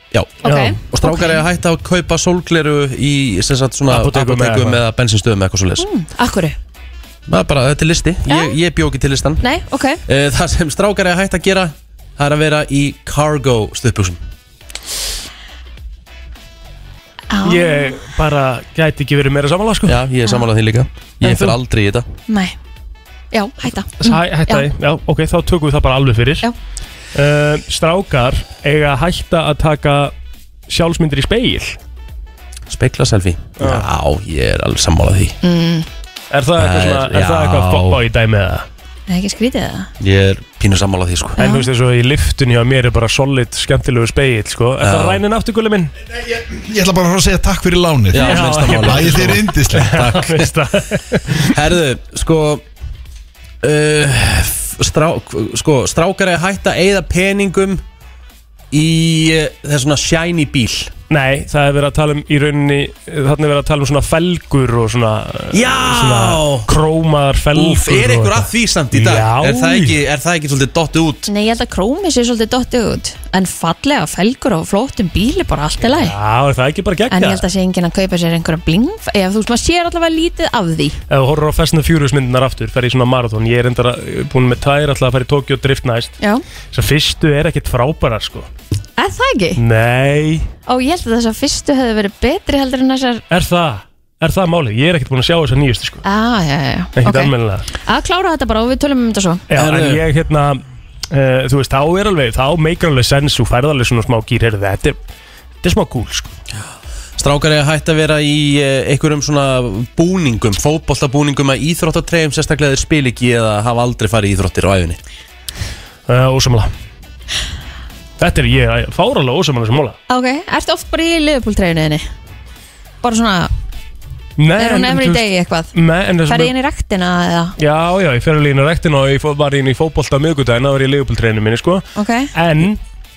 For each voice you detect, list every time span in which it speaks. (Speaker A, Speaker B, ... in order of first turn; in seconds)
Speaker A: 0.1-5.9, 7.3-9.4, 10.1-14.2, 19.9-22.1, 32.7-35.3, 36.6-38.0, 40.0-41.4, 44.8-45.2, 48.1-50.5, 51.4-52.6, 53.6-57.8, 58.7-60.9, 65.6-66.6, 67.5-71.3, 99.5-100.0, 107.2-115.0
Speaker B: 0.4-1.4, 5.8-6.5, 8.3-8.6, 9.4-10.0, 17.3-18.0, 22.3-22.6, 23.3-24.7, 35.4-35.9, 39.1-39.9, 41.4-41.7, 71.3-76.1, 77.1-81.0, 89.0-89.6, 90.7-93.2, 96.0-99.4, 120.1-122.1, 123.0-123.5, 124.6-125.7, 126.3-127.5, 131.9-132.3
Speaker C: 0.4-0.8, 3.9-4.8, 17.4-20.0, 21.2-21.6, 24.0-26.4, 27.1-30.1, 30.7-31.8, 33.6-33.9, 36.3-38.6, 41.4-45.9, 48.1-51.5, 61.1-70.0, 75.9-77.4, 81.1-86.1, 86.7-88.5, 89.6-90.5, 93.3-96.0, 97.0-97.7, 99.5-105.0, 105.6-106.3, 116.1-116.7, 118.2-120.0, 124.4-126.5, 127.6-132.8
Speaker D: 46.4-50.2